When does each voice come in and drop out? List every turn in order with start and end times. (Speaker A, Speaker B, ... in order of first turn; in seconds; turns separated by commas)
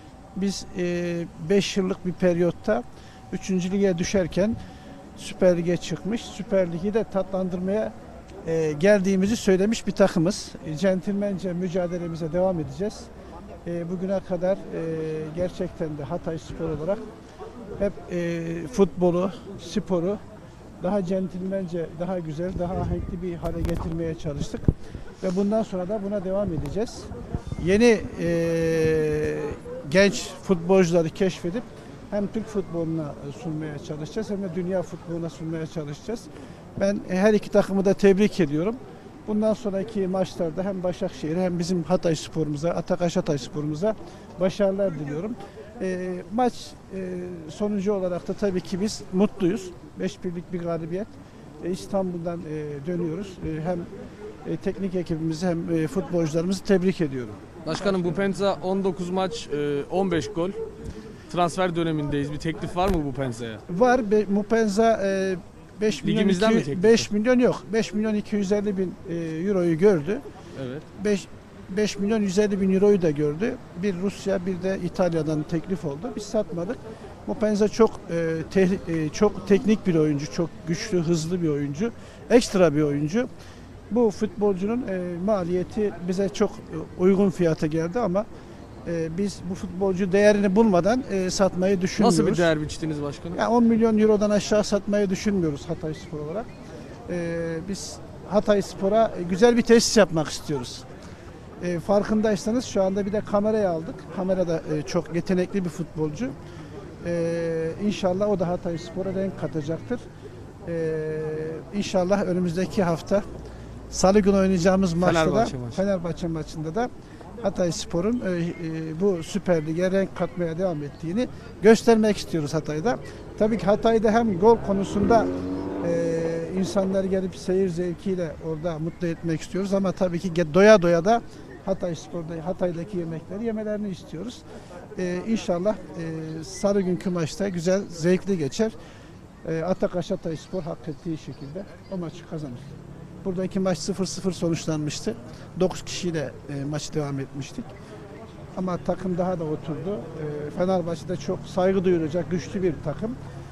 Speaker A: 0.3-4.6, Speaker A: 5.2-13.1, Speaker A: 13.7-17.1, Speaker A: 17.8-20.2, Speaker A: 20.8-24.7, Speaker A: 25.2-53.9, Speaker A: 54.4-58.1, Speaker B: 57.6-60.6, Speaker B: 61.3-63.6, Speaker A: 63.7-70.2, Speaker B: 66.0-67.1, Speaker B: 70.5-70.9, Speaker A: 70.9-83.3, Speaker A: 83.9-88.3, Speaker A: 88.8-92.5, Speaker B: 92.0-93.4, Speaker A: 93.3-96.5, Speaker A: 97.1-100.9, Speaker A: 101.6-106.4, Speaker A: 107.0-110.0, Speaker A: 110.7-113.3, Speaker A: 113.9-116.9, Speaker B: 115.0-115.8, Speaker A: 117.4-125.3, Speaker A: 125.8-134.4, Speaker A: 135.0-138.7, Speaker A: 139.4-147.7, Speaker A: 148.6-153.2